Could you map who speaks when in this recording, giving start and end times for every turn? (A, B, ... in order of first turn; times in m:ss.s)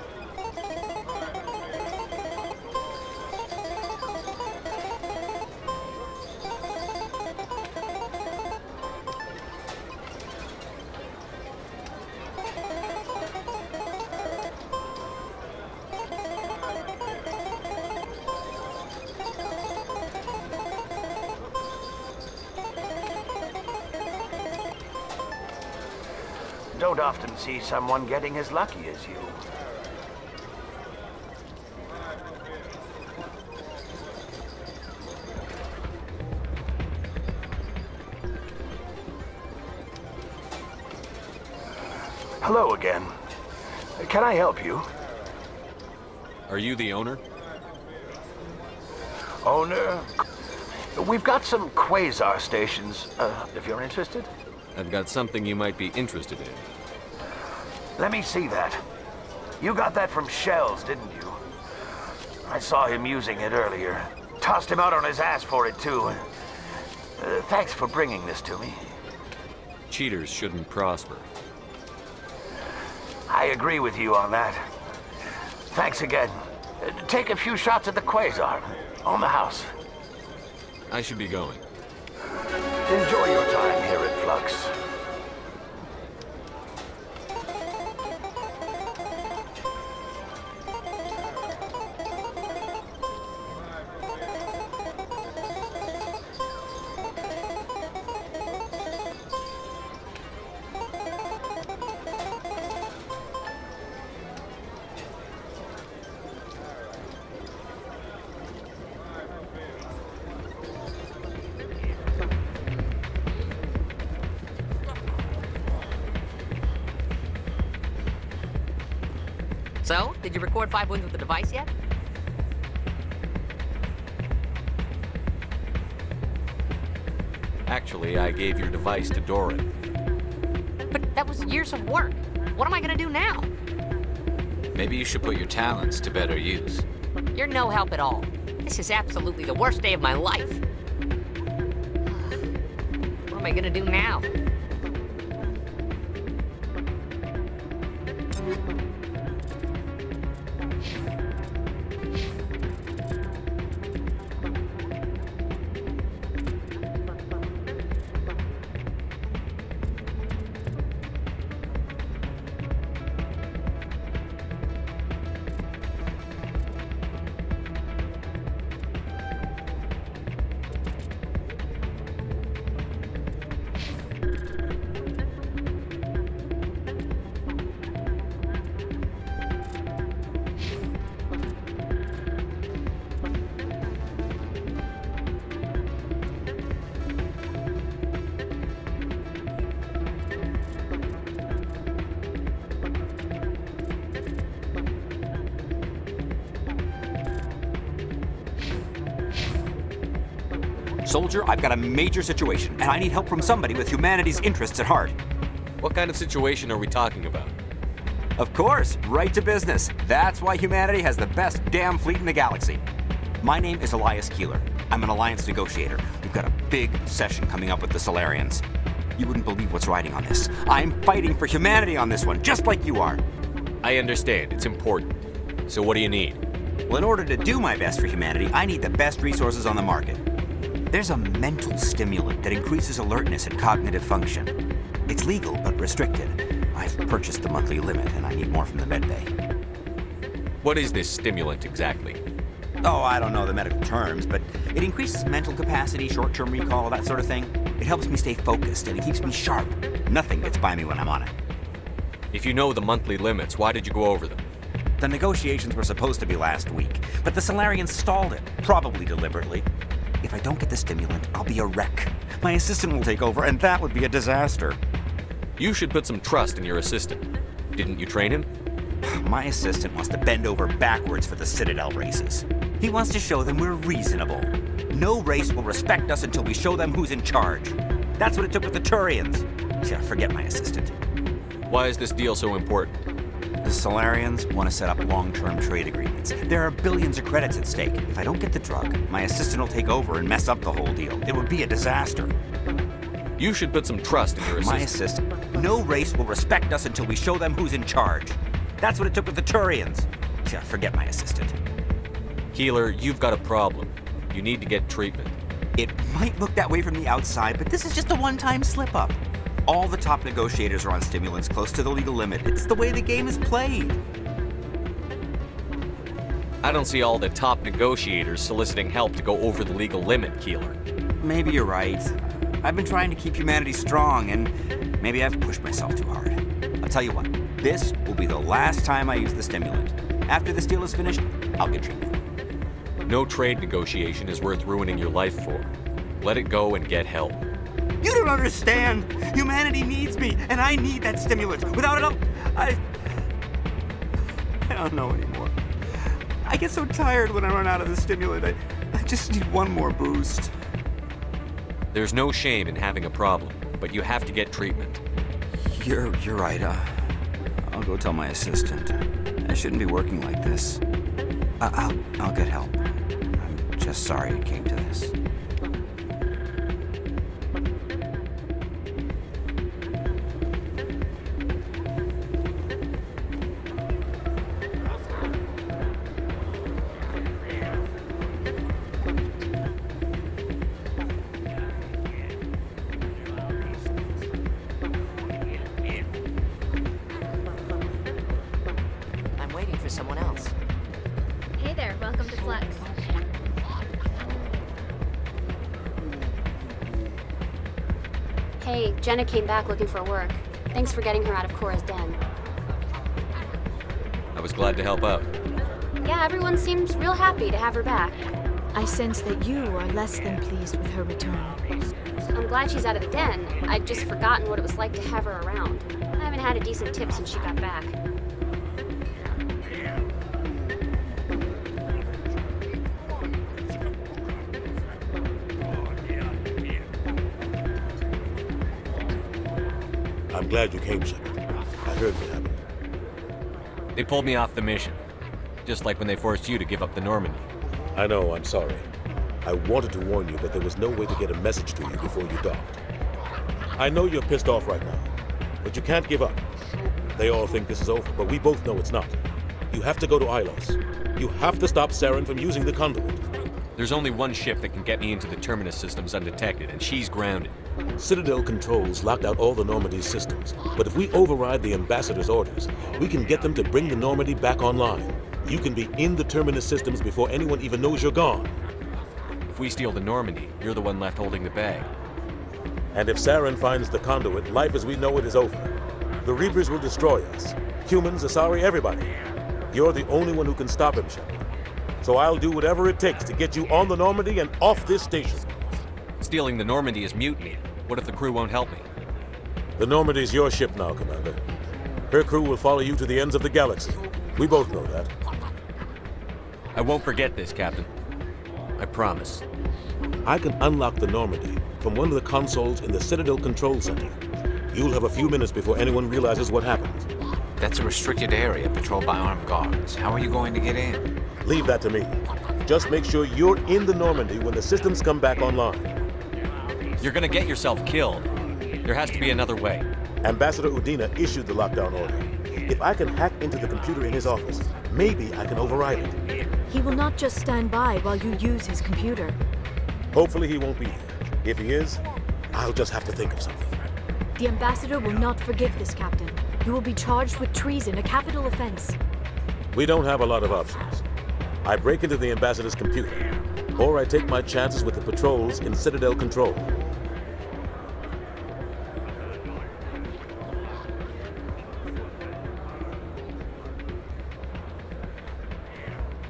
0:26.8-0:29.3 A
0:42.4-0:43.0 A
0:44.0-0:44.8 A
0:46.5-0:47.2 B
0:49.4-0:50.0 A
0:51.0-0:54.3 A
0:54.7-0:56.6 B
0:58.0-0:58.8 A
0:59.6-1:01.4 A
1:02.5-1:06.1 A
1:07.2-1:08.7 A
1:09.9-1:11.2 B
1:13.3-1:14.6 A
1:15.8-1:16.3 A
1:17.1-1:18.6 A
1:19.1-1:19.6 A
1:20.9-1:21.6 B
1:22.9-1:24.6 A
1:59.8-2:01.7 C
2:07.7-2:09.7 B
2:10.9-2:13.5 C
2:14.7-2:16.8 D
2:17.3-2:20.6 C
2:22.1-2:22.4 C
2:23.3-2:24.3 C
3:21.0-3:25.1 E
3:25.8-3:27.5 B
3:28.4-3:32.8 E
3:33.4-3:38.6 E
3:39.2-3:43.2 E
3:43.8-3:46.4 B
3:46.9-3:50.2 E
3:50.9-3:54.5 E
3:55.1-3:59.3 E
4:00.6-4:02.2 B
4:02.8-4:11.3 E
4:12.3-4:14.4 B
4:15.0-4:19.7 E
4:20.2-4:24.8 E
4:25.6-4:27.2 B
4:27.8-4:28.5 B
4:29.0-4:41.0 E
4:41.7-4:43.0 B
4:43.6-4:52.3 E
4:53.4-4:54.9 B
4:54.4-5:01.5 E
5:02.5-5:05.4 B
5:05.8-5:14.0 E
5:16.6-5:20.8 B
5:21.2-5:32.2 E
5:33.0-5:37.4 B
5:38.0-5:42.8 E
5:44.7-5:45.6 E
5:46.4-5:50.5 E
5:51.9-5:55.0 B
5:55.6-5:57.0 E
5:57.6-6:00.8 E
6:01.6-6:02.8 E
6:03.4-6:05.1 E
6:29.4-6:30.5 C
6:31.6-6:33.2 F
6:38.6-6:42.2 F
6:44.3-6:45.3 B
6:46.0-6:48.3 F
6:48.7-6:51.6 G
6:52.3-6:58.0 F
7:10.3-7:12.6 H
7:14.0-7:15.0 B
7:15.6-7:17.4 B
7:17.9-7:18.8 H
7:19.4-7:22.8 H
7:23.8-7:25.1 H
7:25.6-7:26.4 H
7:27.2-7:29.1 H
7:29.7-7:33.2 H
7:33.8-7:37.5 B
7:38.0-7:48.5 H
7:49.5-7:51.9 B
7:52.9-7:59.1 H
7:59.7-8:01.4 H
8:02.0-8:05.5 H
8:06.2-8:08.9 B
8:09.8-8:11.4 H
8:12.1-8:15.1 H
8:16.7-8:17.9 B
8:18.8-8:19.4 B
8:20.2-8:24.2 H
8:24.7-8:27.1 H
8:27.6-8:31.0 D
8:31.4-8:35.9 H
8:37.0-8:38.3 B
8:38.8-8:39.8 B
8:40.2-8:46.2 H
8:46.7-8:49.4 G
8:50.1-8:52.0 H
8:52.5-8:53.7 H
8:54.4-8:59.0 G
8:59.7-9:01.0 H
9:01.6-9:03.2 H
9:03.8-9:06.7 H